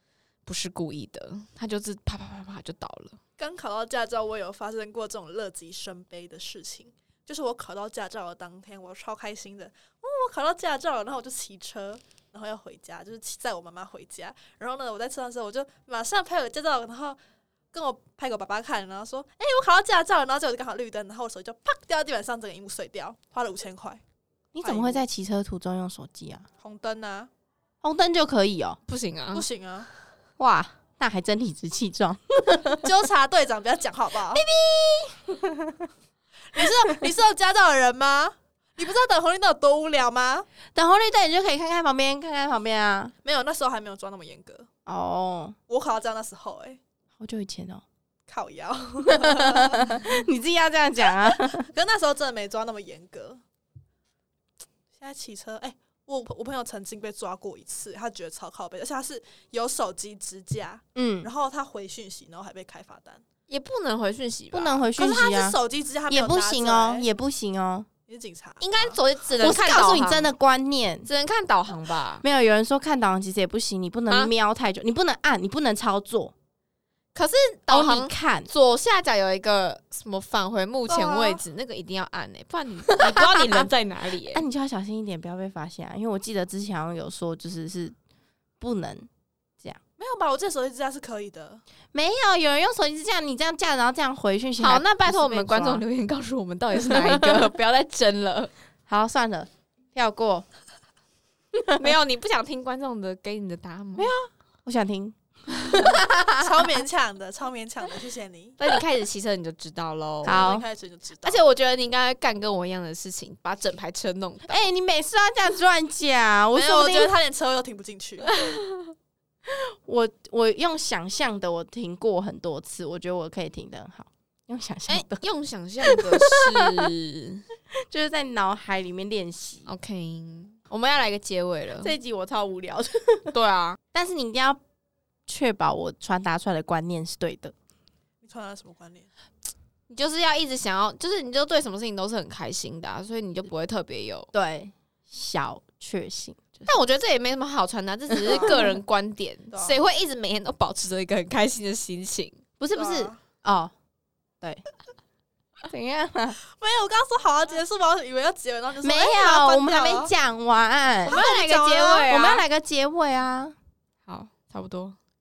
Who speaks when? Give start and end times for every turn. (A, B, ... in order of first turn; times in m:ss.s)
0:00.4-0:03.2 A
0:03.4-0:17.2 B
0:17.7-0:24.0 B
0:24.5-0:26.4 C
0:24.6-0:25.0 B
0:26.6-0:27.3 B
0:27.8-0:28.8 C
0:28.9-0:29.4 A
0:29.3-0:29.9 B
0:30.4-0:32.9 C
0:32.8-0:34.5 B
0:34.3-0:35.9 C
0:36.5-0:40.5 B
0:36.6-0:37.1 C
0:40.7-0:43.1 C
0:43.2-0:44.7 B
0:44.8-0:45.6 C
0:45.7-0:46.8 B
0:47.2-0:47.8 C
0:48.3-0:50.0 B
0:49.1-0:51.7 C
0:51.2-0:53.4 B
0:55.0-1:03.2 B
1:00.9-1:01.3 C
1:03.5-1:04.9 A
1:04.5-1:05.6 C
1:05.0-1:07.1 B
1:06.1-1:07.9 C
1:08.1-1:09.0 B
1:08.6-1:10.3 A
1:09.4-1:11.1 C
1:11.0-1:12.2 A
1:12.2-1:16.3 C
1:17.1-1:24.4 A
1:17.7-1:18.5 C
1:20.9-1:21.4 B
1:23.0-1:23.7 C
1:24.3-1:28.0 C
1:28.6-1:29.1 C
1:30.0-1:31.6 B
1:31.9-1:35.8 C
1:34.6-1:38.5 A
1:36.8-1:37.5 C
1:38.9-1:40.4 C
1:41.5-1:41.9 C
1:41.7-1:44.1 A
1:44.0-1:46.6 C
1:45.8-1:48.6 B
1:48.6-1:50.5 A
1:50.2-1:50.7 C
1:50.2-1:51.5 B
1:51.2-1:54.6 A
1:54.5-1:57.1 C
1:56.5-1:58.4 B
1:58.3-1:58.9 A
1:59.5-2:05.2 C
2:04.9-2:07.4 A
2:05.8-2:06.9 C
2:07.9-2:09.7 C
2:09.6-2:11.9 A
2:11.8-2:13.3 C
2:13.3-2:13.8 A
2:13.9-2:14.6 C
2:15.3-2:17.5 C
2:18.2-2:19.1 B
2:19.9-2:24.3 A
2:24.3-2:26.7 C
2:26.6-2:32.4 A
2:28.1-2:28.8 C
2:29.5-2:29.8 B
2:32.6-2:33.7 C
2:32.7-2:33.2 B
2:35.7-2:36.4 C
2:36.5-2:40.1 B
2:38.8-2:41.2 C
2:41.0-2:42.1 B
2:41.0-2:42.4 A
2:42.1-2:43.5 C
2:44.0-2:45.0 A